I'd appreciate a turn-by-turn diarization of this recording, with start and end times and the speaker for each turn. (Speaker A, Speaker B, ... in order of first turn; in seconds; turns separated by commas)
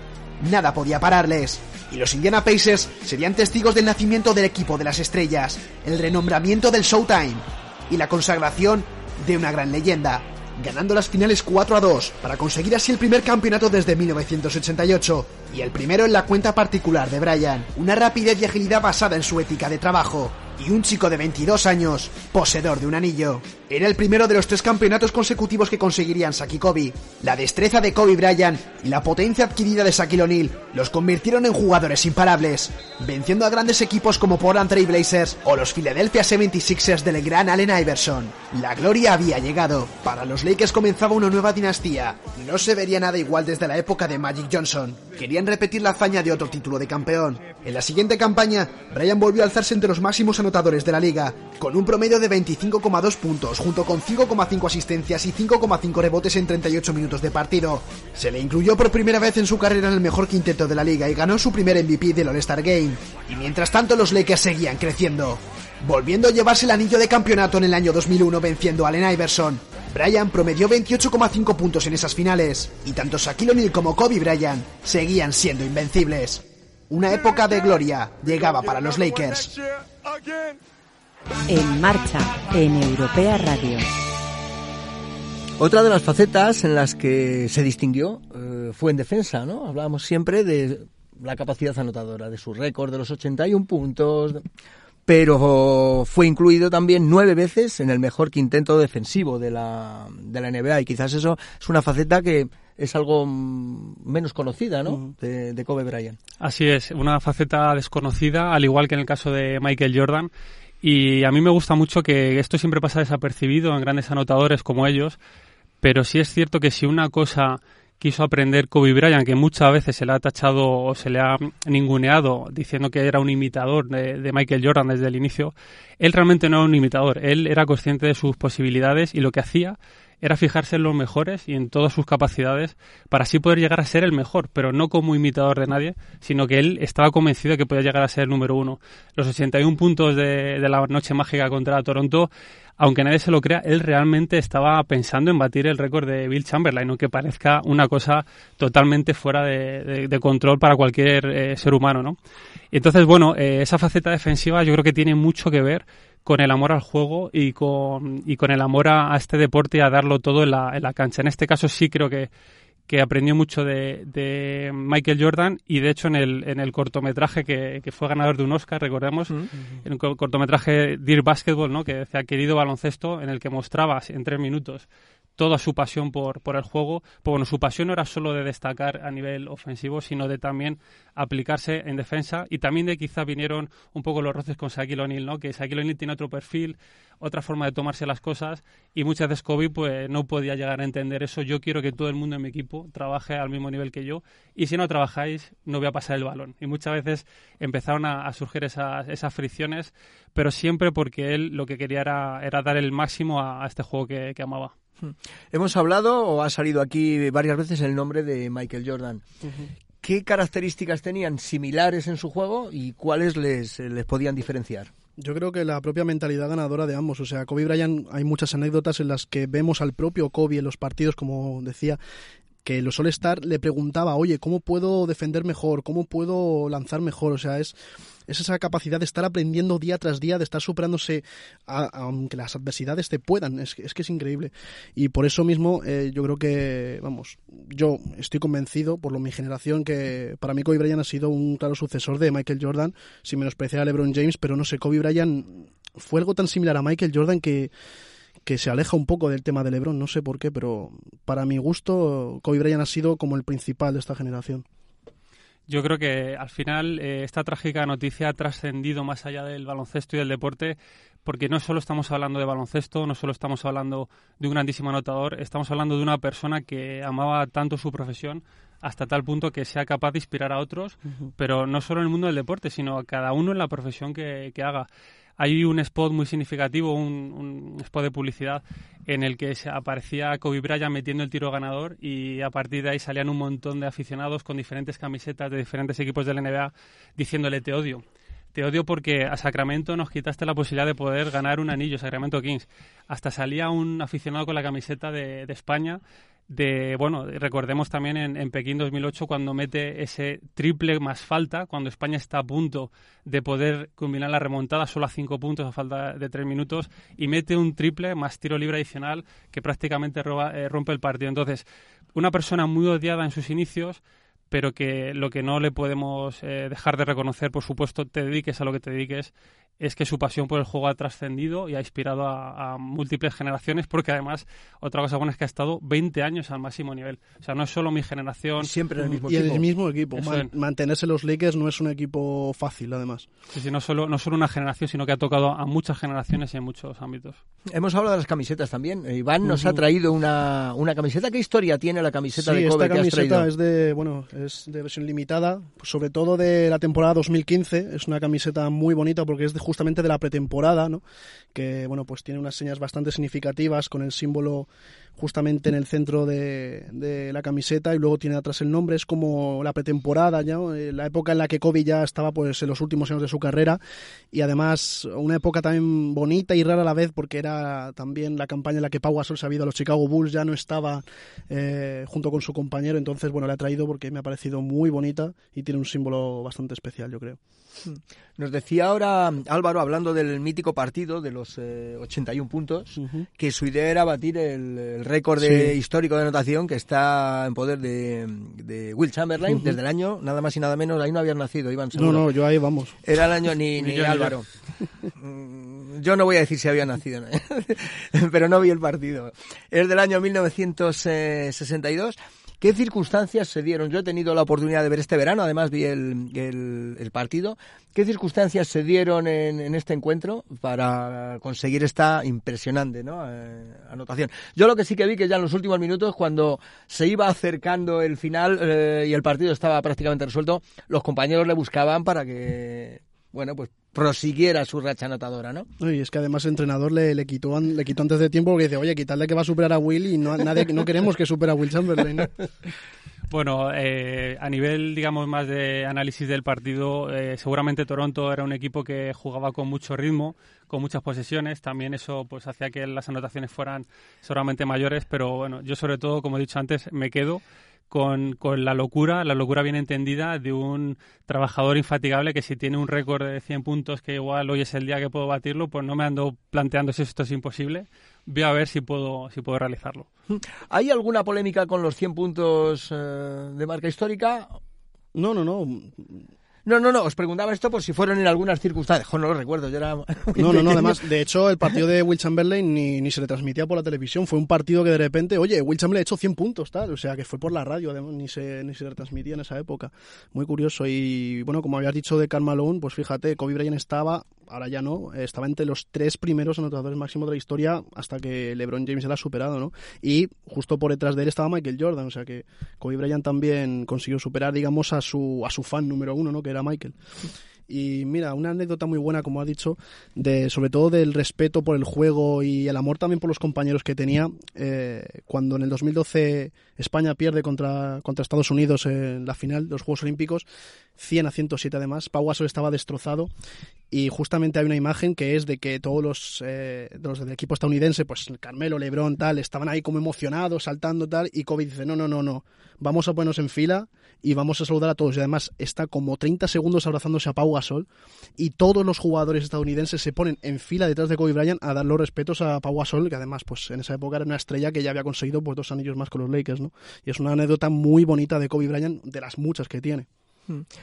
Speaker A: 0.4-79.7, Speaker B: 81.5-83.9, Speaker C: 85.6-94.4, Speaker C: 95.1-106.2, Speaker D: 106.4-110.3, Speaker D: 110.8-115.2, Speaker D: 115.8-152.2, Speaker D: 152.7-162.3, Speaker D: 162.9-204.7, Speaker C: 205.0-209.2, Speaker C: 210.0-214.9, Speaker E: 215.2-222.0, Speaker E: 222.7-227.7, Speaker E: 228.3-247.7, Speaker E: 248.5-254.7, Speaker D: 255.7-274.9, Speaker D: 275.4-288.0, Speaker D: 288.5-328.7, Speaker C: 328.6-329.7, Speaker E: 329.3-333.3, Speaker D: 330.1-330.5, Speaker D: 333.5-337.4, Speaker C: 337.7-343.5, Speaker E: 339.5-339.8, Speaker E: 342.4-351.0, Speaker E: 351.5-363.8, Speaker E: 364.3-377.4, Speaker C: 377.9-392.3, Speaker E: 383.0-383.3, Speaker E: 385.4-385.8, Speaker E: 389.5-389.8, Speaker E: 391.9-393.0, Speaker C: 393.1-394.4, Speaker D: 393.8-394.4, Speaker C: 395.2-425.7, Speaker E: 425.8-432.4, Speaker D: 433.3-460.1, Speaker C: 460.3-464.6, Speaker E: 465.1-466.1, Speaker C: 466.7-471.0, Speaker E: 470.4-496.9, Speaker E: 497.7-510.4, Speaker E: 511.0-513.3, Speaker E: 513.9-527.9, Speaker E: 528.4-540.1